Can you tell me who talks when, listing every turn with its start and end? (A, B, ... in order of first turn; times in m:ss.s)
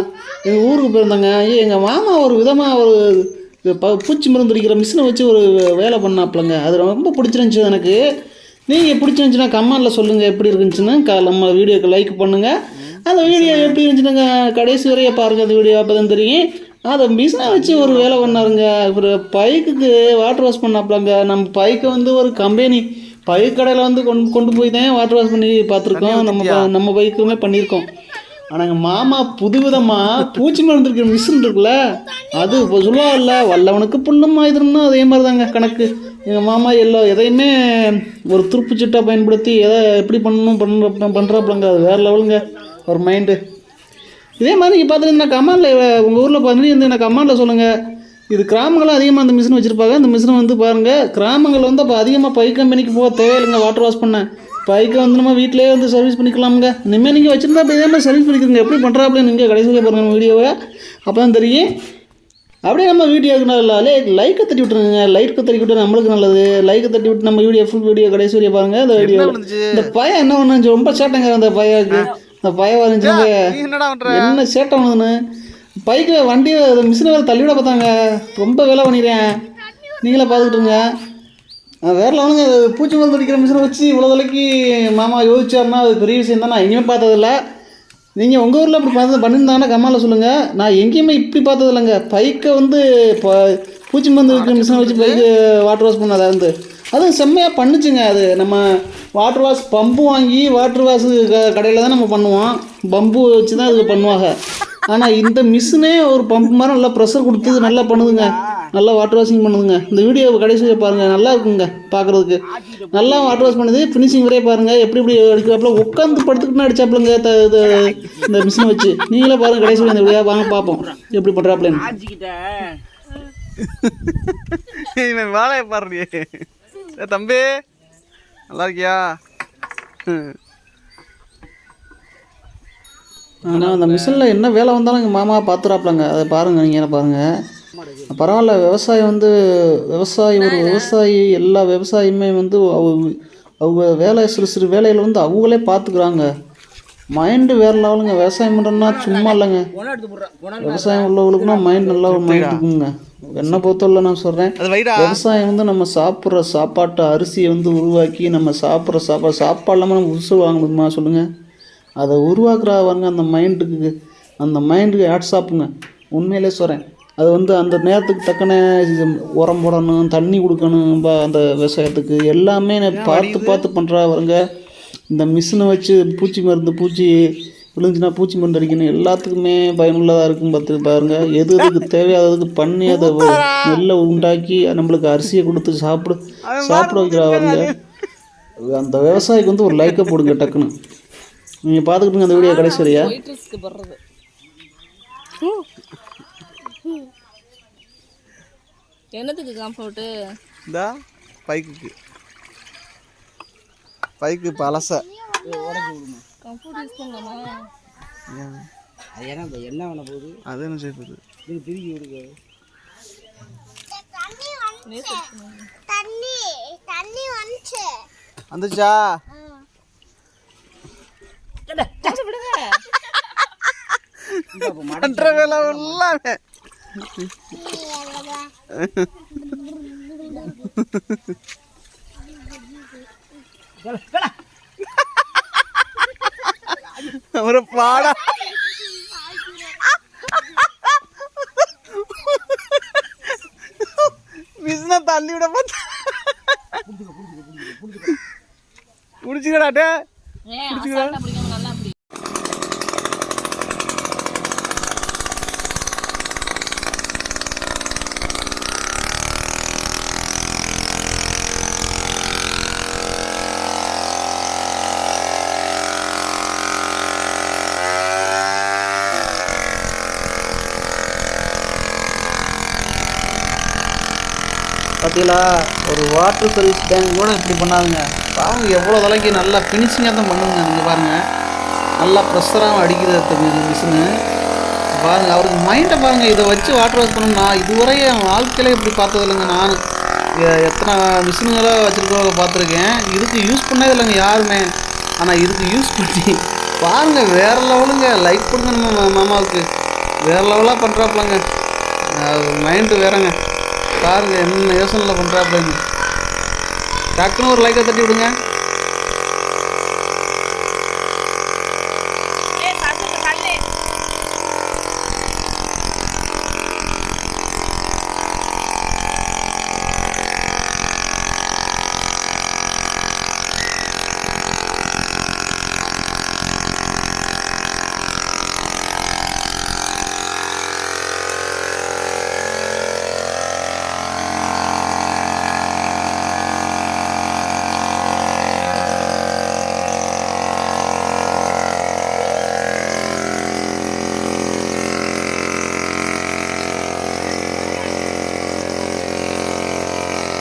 0:00.4-0:03.0 A
0:03.7-0:08.0 A
0:08.7-0:12.5 A
0:12.9-0:13.8 B
0:13.0-0:28.0 A
0:17.5-0:18.5 C
0:25.9-0:26.7 B
0:28.5-0:43.4 A
0:44.4-0:47.7 A
0:48.3-1:00.6 A
1:01.1-1:01.7 A
1:02.7-1:13.4 A
1:09.0-1:09.9 B
1:13.0-1:14.4 B
1:14.1-1:15.2 A
1:15.9-1:19.4 A
1:19.9-1:21.0 A
1:21.9-1:27.4 A
1:28.2-1:38.6 A
1:34.3-1:35.2 B
1:39.2-1:44.3 A
1:44.9-2:02.0 A
1:47.4-1:48.7 C
1:52.5-1:53.6 C
1:57.6-1:58.5 C
1:59.6-2:00.9 C
2:01.7-2:02.8 C
2:03.6-2:07.5 B
2:08.5-2:09.1 B
2:10.1-2:10.4 B
2:13.5-2:17.2 A
2:13.5-2:14.2 C
2:17.8-2:18.2 C
2:18.1-2:19.3 A
2:19.9-2:26.3 A
2:20.4-2:21.0 D
2:27.1-2:29.7 A
2:28.8-2:32.1 C
2:30.6-2:41.3 A
2:32.1-2:32.6 B
2:34.6-2:35.2 B
2:42.0-2:54.4 A
2:52.9-2:53.6 B
2:55.1-2:57.2 A
2:57.8-3:07.7 A
3:01.6-3:01.9 B
3:02.9-3:03.8 B
3:06.5-3:07.8 B
3:08.6-3:10.7 A
3:09.8-3:10.4 B
3:11.7-3:13.1 A
3:12.3-3:14.0 D
3:15.4-3:15.7 D
3:16.8-3:17.1 D
3:19.1-3:20.1 D
3:21.5-3:21.9 B
3:24.2-3:25.1 B
3:25.2-3:25.5 E
3:25.4-3:26.2 C
3:26.4-3:27.7 D
3:29.2-3:30.4 C
3:30.5-3:31.2 A
3:31.5-3:32.4 C
3:33.9-3:34.8 E
3:34.8-3:35.7 D
3:35.9-3:38.1 E
3:38.5-3:39.0 B
3:41.7-3:42.1 C
3:41.9-3:42.8 D
3:43.8-3:46.4 B
3:44.5-3:46.0 C
3:47.6-3:48.5 E
3:48.8-3:49.4 B
3:50.6-3:51.3 B
3:53.8-3:54.3 C
3:56.3-3:58.6 B
3:59.6-4:06.8 B
4:06.9-4:08.2 C
4:09.2-4:09.9 B
4:10.5-4:12.0 D
4:10.7-4:11.2 B
4:35.0-4:41.2 A
4:42.0-4:44.1 A
4:45.0-4:49.8 A
4:50.4-4:59.7 A
5:00.2-5:01.4 A
5:02.2-5:03.3 A
5:04.0-5:05.8 A
5:07.2-5:08.3 A
5:12.6-5:13.6 D